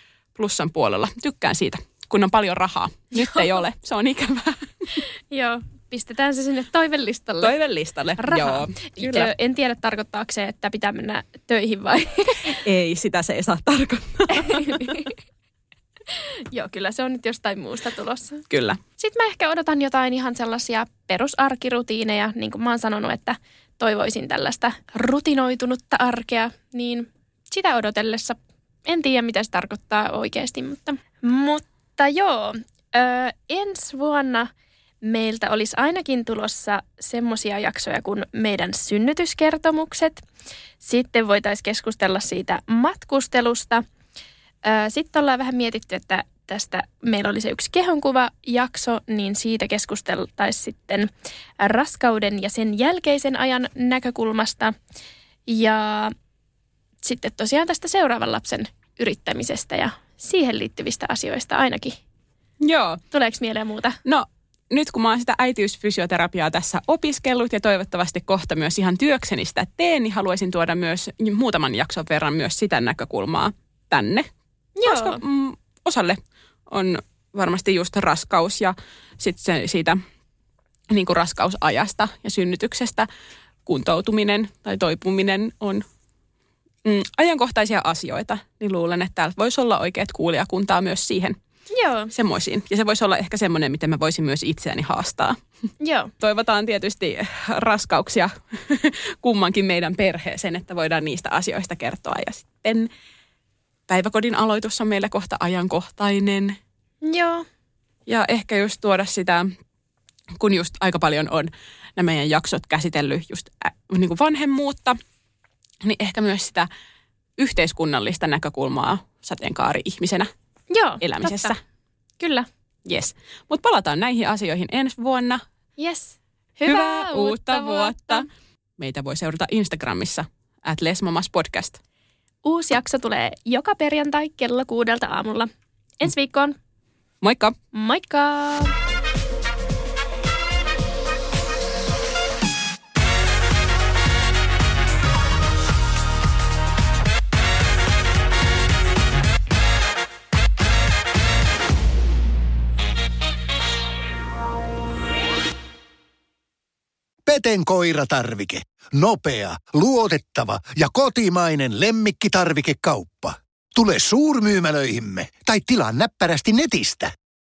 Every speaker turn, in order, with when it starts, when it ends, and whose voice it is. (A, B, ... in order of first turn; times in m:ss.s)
0:00.4-0:05.0 A
0:03.2-0:03.4 B
0:05.3-0:07.5 B
0:07.4-0:09.3 A
0:08.2-0:12.6 B
0:12.6-0:15.0 A
0:14.3-0:15.1 B
0:16.1-0:18.4 B
0:18.5-0:18.8 A
0:19.0-0:34.5 B
0:35.0-0:40.2 B
0:40.8-0:43.8 B
0:44.6-0:54.8 B
0:55.5-0:56.1 B
0:57.0-1:02.0 B
1:02.6-1:03.0 A
1:03.1-1:04.0 B
1:04.0-1:14.3 A
1:14.8-1:15.2 B
1:14.9-1:20.0 A
1:20.9-1:23.1 A
1:23.7-1:25.8 A
1:26.8-1:31.4 A
1:31.7-1:32.1 B
1:32.1-1:35.4 A
1:35.8-1:36.1 B
1:36.2-1:42.9 A
1:43.9-1:46.6 A
1:47.0-1:47.4 B
1:48.1-1:49.5 A
1:50.4-1:55.0 A
1:55.8-1:56.7 A
1:57.4-2:00.3 A
2:00.7-2:01.6 B
2:01.0-2:01.6 A
2:02.2-2:02.5 B
2:02.9-2:05.4 A
2:05.8-2:08.3 B
2:06.7-2:08.3 A
2:08.8-2:11.8 A
2:12.4-2:15.5 B
2:16.0-2:16.6 B
2:17.2-2:17.6 A
2:17.7-2:18.7 B
2:37.3-2:47.1 C